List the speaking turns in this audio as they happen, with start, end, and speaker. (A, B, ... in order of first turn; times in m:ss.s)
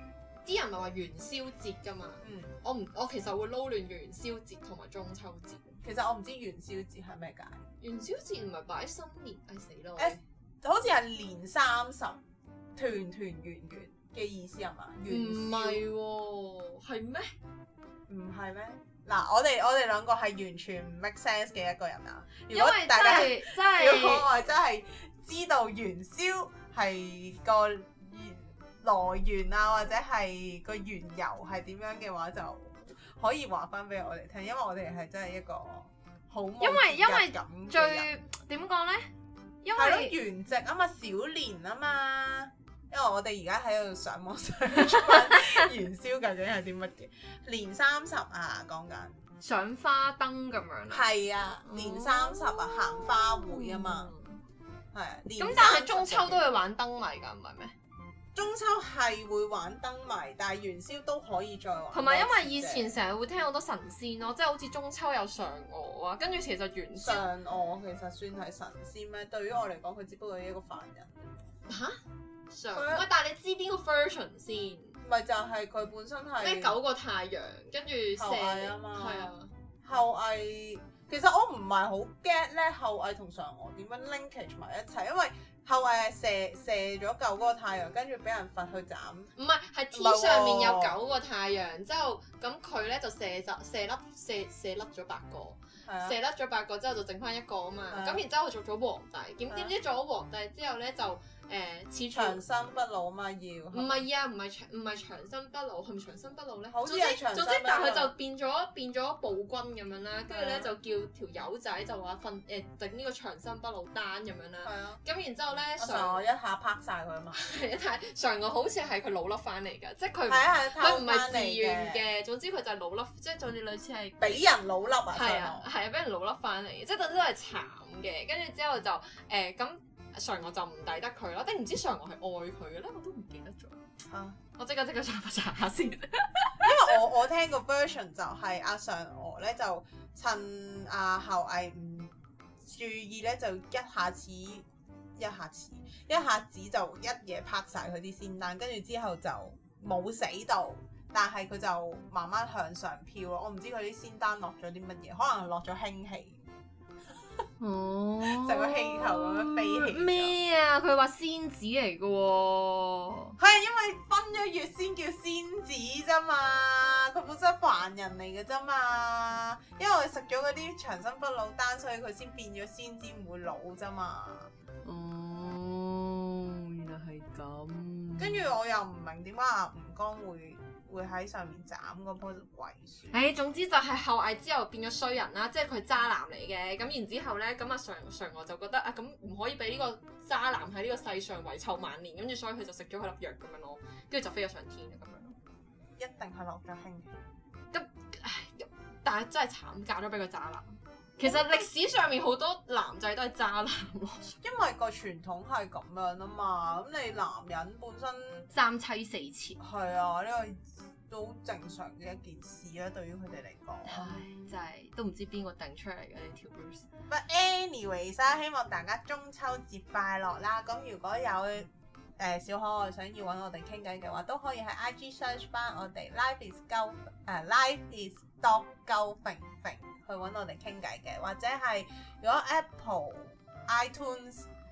0:00.4-0:05.8 A
0:02.2-0:02.6 B
0:05.8-0:07.6 B
0:07.8-0:10.2 A
0:10.0-0:12.2 B
0:12.8-0:15.8 B
0:15.1-0:17.3 A
0:18.1-0:38.1 B
0:22.5-0:24.3 A
0:36.6-0:39.1 A
0:39.6-0:40.2 A
0:39.8-0:49.2 B
0:49.4-0:51.0 A
0:50.9-0:54.1 B
0:51.6-0:54.4 A
0:54.9-0:56.5 B
0:55.4-0:57.7 A
0:58.3-1:02.9 B
1:01.9-1:07.2 A
1:06.9-1:11.3 B
1:11.6-1:15.0 A
1:12.7-1:13.0 B
1:15.0-1:16.8 B
1:16.4-1:19.5 A
1:18.2-1:19.3 B
1:19.8-1:29.3 B
1:29.4-1:42.4 A
1:29.9-1:31.0 B
1:35.8-1:36.2 B
1:37.9-1:38.2 B
1:39.5-1:39.7 B
1:42.1-1:44.0 B
1:43.7-1:56.3 A
1:46.7-1:48.1 B
1:50.3-1:50.7 B
1:54.6-1:55.0 B
1:55.8-1:57.4 B
1:57.3-2:04.5 A
2:00.3-2:02.0 B
2:04.2-2:05.7 B
2:05.1-2:13.8 A
2:14.1-2:14.4 B
2:14.6-2:16.7 A
2:16.6-2:24.6 B
2:25.2-2:36.4 B
2:37.6-2:43.4 A
2:38.2-2:40.3 B
2:43.4-2:54.5 B
2:54.8-2:58.4 A
2:58.2-3:03.1 B
3:03.1-3:15.4 A
3:16.0-3:17.1 B
3:17.7-3:24.4 A
3:21.2-3:21.7 B
3:24.4-3:28.5 B
3:28.5-3:29.6 A
3:29.6-3:34.1 B
3:33.8-3:36.8 A
3:37.1-3:54.5 B